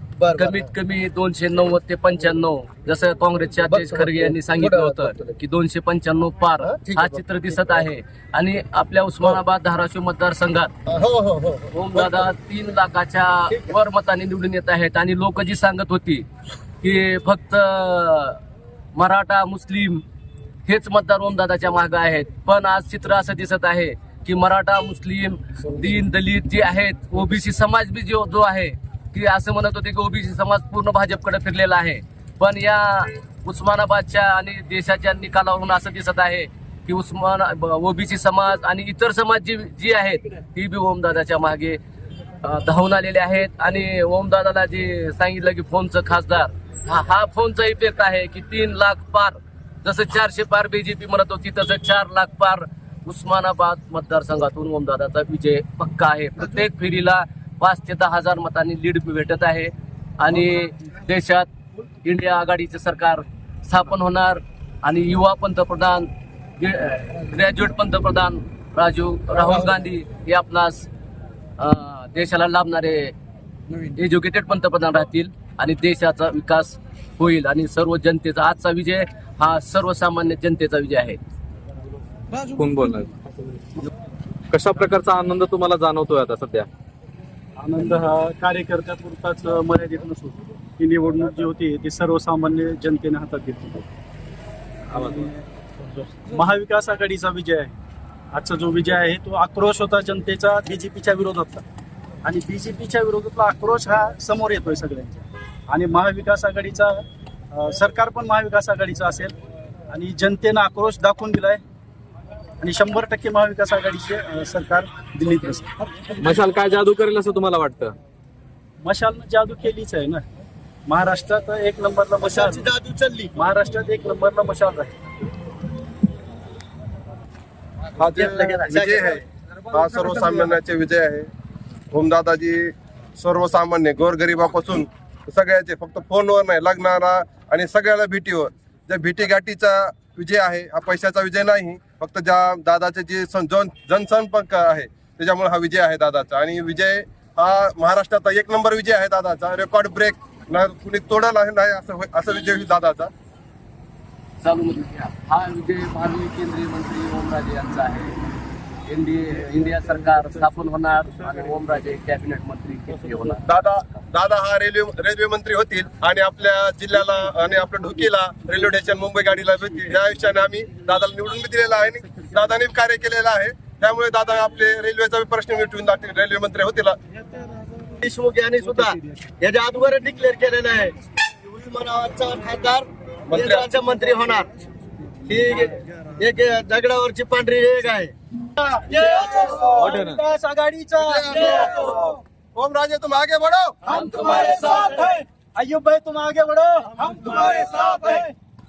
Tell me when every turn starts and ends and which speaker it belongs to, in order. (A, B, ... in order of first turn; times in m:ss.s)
0:00.2-0:00.7 A
0:00.4-0:10.7 B
0:03.7-0:05.3 A
0:06.6-0:07.8 A
0:10.9-0:12.3 A
0:11.7-0:16.2 B
0:13.5-0:13.7 A
0:16.8-0:18.4 B
0:18.9-0:20.0 B
0:20.6-0:41.8 B
0:42.4-1:01.5 B
1:02.0-1:10.9 B
1:11.6-1:13.1 B
1:13.9-1:21.2 B
1:22.5-1:23.1 C
1:24.5-1:26.7 C
1:27.6-1:33.9 D
1:34.9-1:35.3 C
1:34.9-1:35.4 D
1:36.2-1:37.8 D
1:38.3-1:41.6 D
1:42.2-1:49.3 D
1:49.9-1:51.6 D
1:52.6-1:55.8 D
1:56.2-1:57.9 C
1:58.8-2:00.2 D
2:00.9-2:02.7 D
2:02.2-2:03.3 A
2:03.4-2:04.9 D
2:08.0-2:11.3 E
2:08.1-2:09.2 A
2:11.9-2:33.1 E
2:34.4-2:38.2 B
2:38.8-2:43.5 B
2:43.4-2:57.0 E
2:57.8-3:04.5 A
3:03.3-3:03.7 E
3:05.2-3:08.1 A
3:08.6-3:12.1 D
3:09.8-3:10.2 C
3:11.0-3:12.0 E
3:12.5-3:13.8 E
3:13.9-3:18.3 D